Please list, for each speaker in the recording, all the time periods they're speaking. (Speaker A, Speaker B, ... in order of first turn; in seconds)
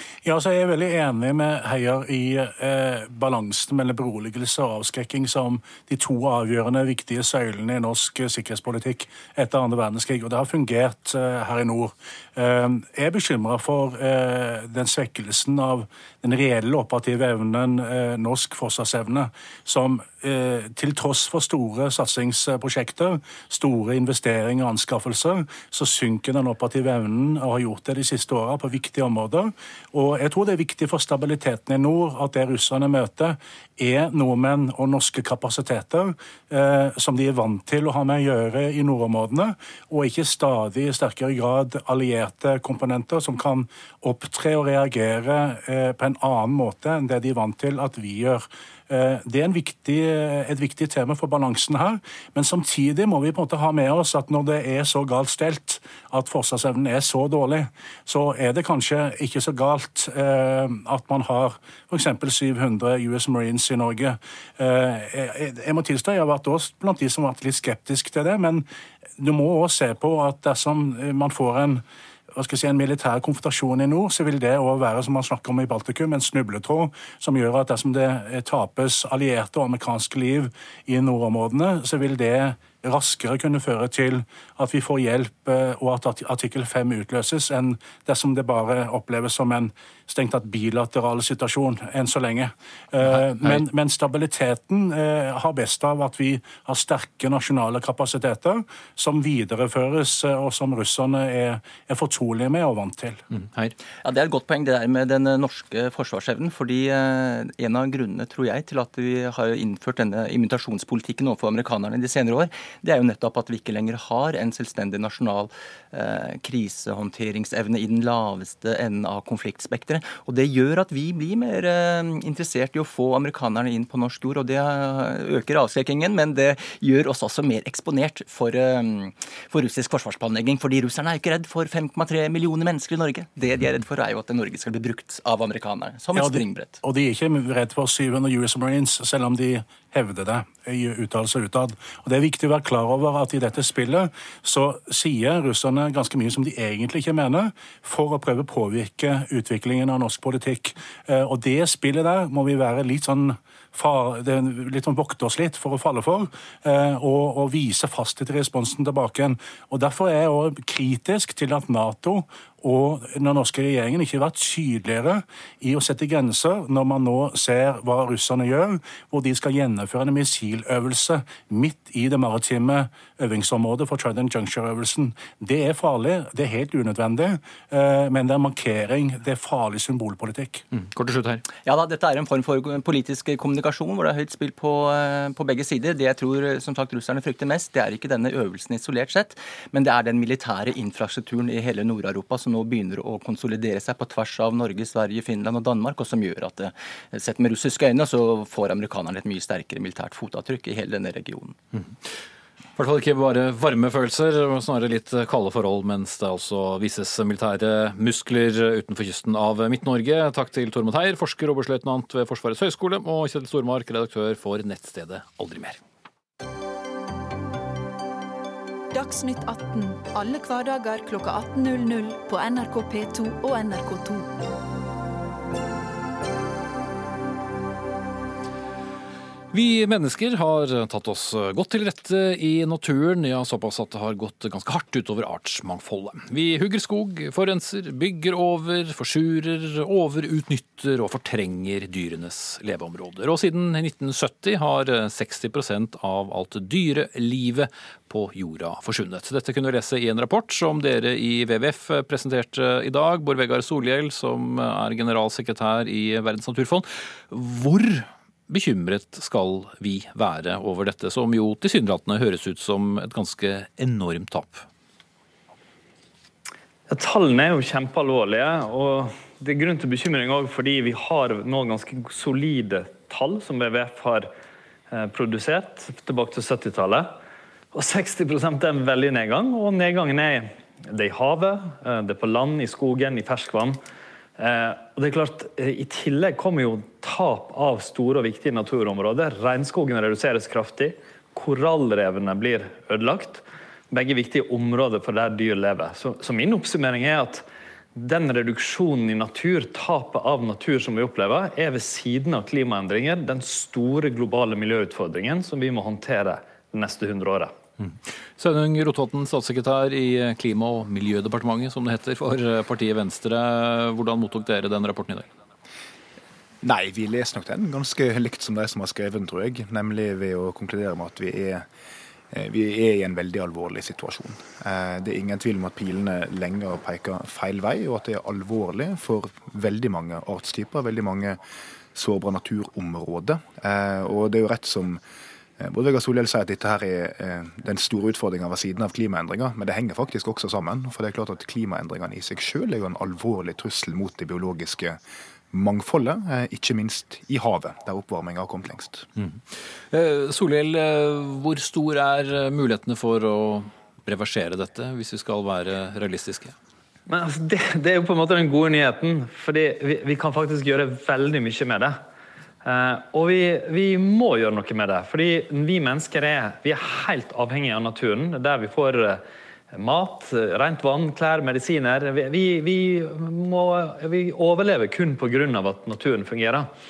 Speaker A: 0.2-68.6, 69.2-103.2, 136.1-180.6
Speaker B: 93.0-93.6, 103.3-103.7, 180.7-181.4, 202.8-215.8, 229.5-264.6, 307.8-315.2, 349.2-356.5
Speaker C: 104.0-136.8, 181.6-201.6
Speaker D: 218.9-224.3
Speaker E: 266.9-274.3, 274.9-277.2, 277.7-283.8, 284.4-307.5, 357.1-362.0, 362.6-376.7
Speaker F: 316.6-321.7, 322.3-331.4, 331.9-335.0, 335.6-349.1